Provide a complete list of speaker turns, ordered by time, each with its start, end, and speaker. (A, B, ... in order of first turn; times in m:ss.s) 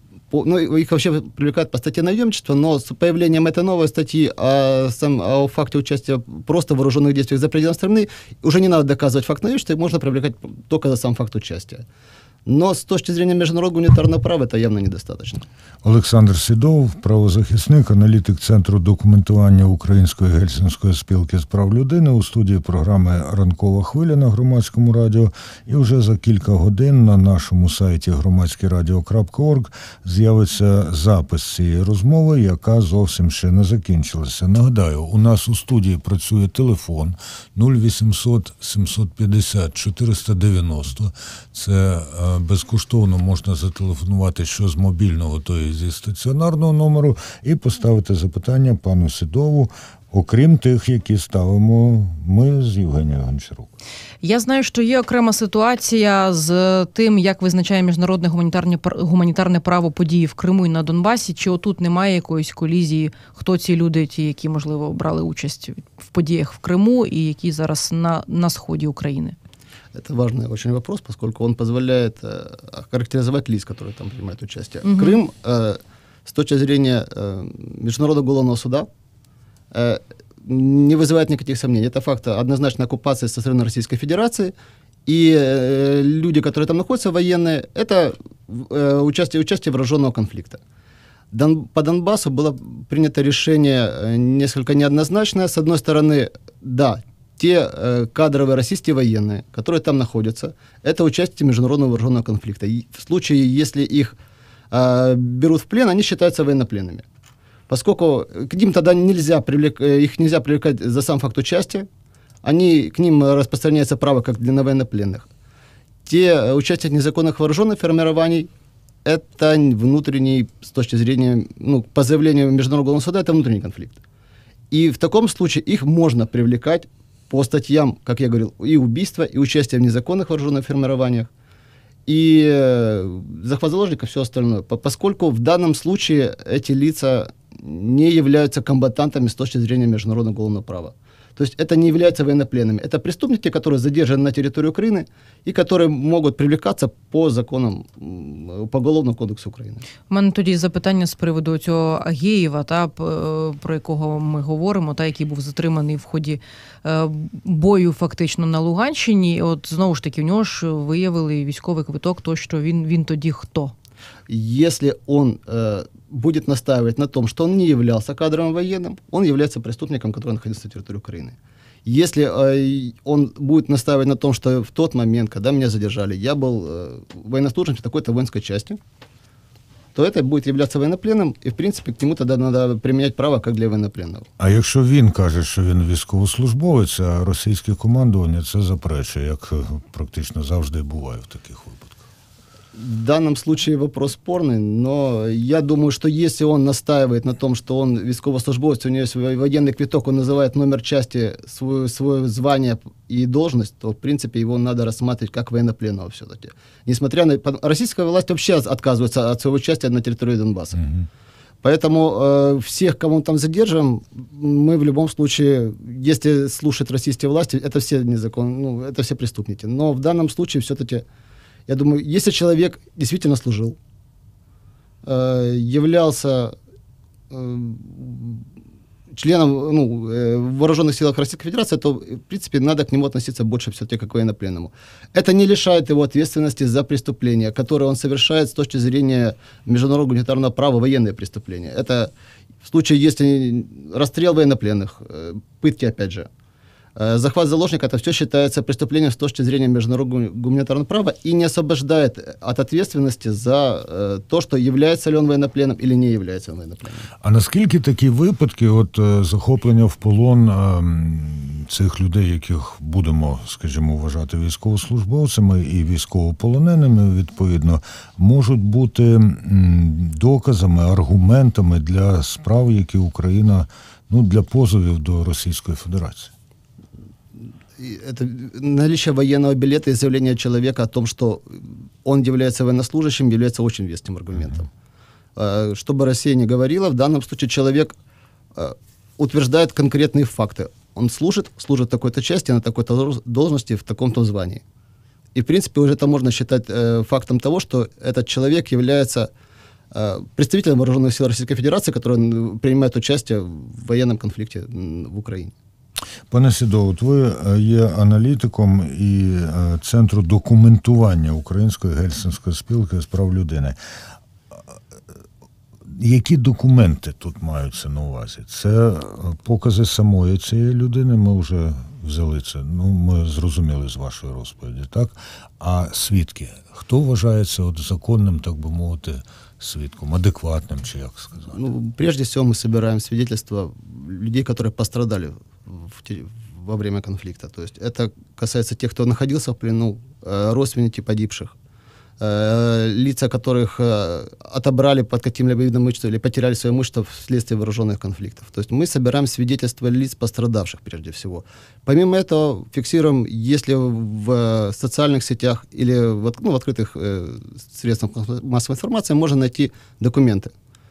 0:00.3-0:11.8 A
0:12.5-0:15.4 A
0:15.8-0:53.7 B
0:54.2-1:09.4 C
1:09.9-1:18.9 A
1:14.8-1:15.2 C
1:19.7-1:24.5 A
1:25.0-1:30.6 A
1:31.3-1:44.2 A
1:44.7-1:47.0 A
1:47.7-1:51.9 A
1:52.4-1:55.3 A
1:56.0-1:58.5 A
1:59.0-2:04.0 A
2:04.7-2:11.3 A
2:12.0-2:29.8 A
2:30.1-2:43.7 C
2:44.3-2:58.8 A
3:00.0-3:04.3 A
3:04.4-3:12.0 B
3:12.8-3:30.8 A
3:30.8-3:31.1 B
3:31.6-3:41.0 A
3:41.7-3:43.8 A
3:45.0-3:46.5 A
3:47.3-3:48.4 A
3:49.1-4:02.1 A
4:02.6-4:06.3 A
4:07.0-4:17.1 A
4:17.2-4:36.3 B
4:37.8-4:44.7 A
4:45.4-4:48.0 A
4:48.5-4:54.6 A
4:55.3-4:59.3 A
4:59.9-5:05.5 A
5:06.3-5:13.8 B
5:15.9-5:31.6 B
5:31.5-5:41.6 A
5:42.2-6:00.5 A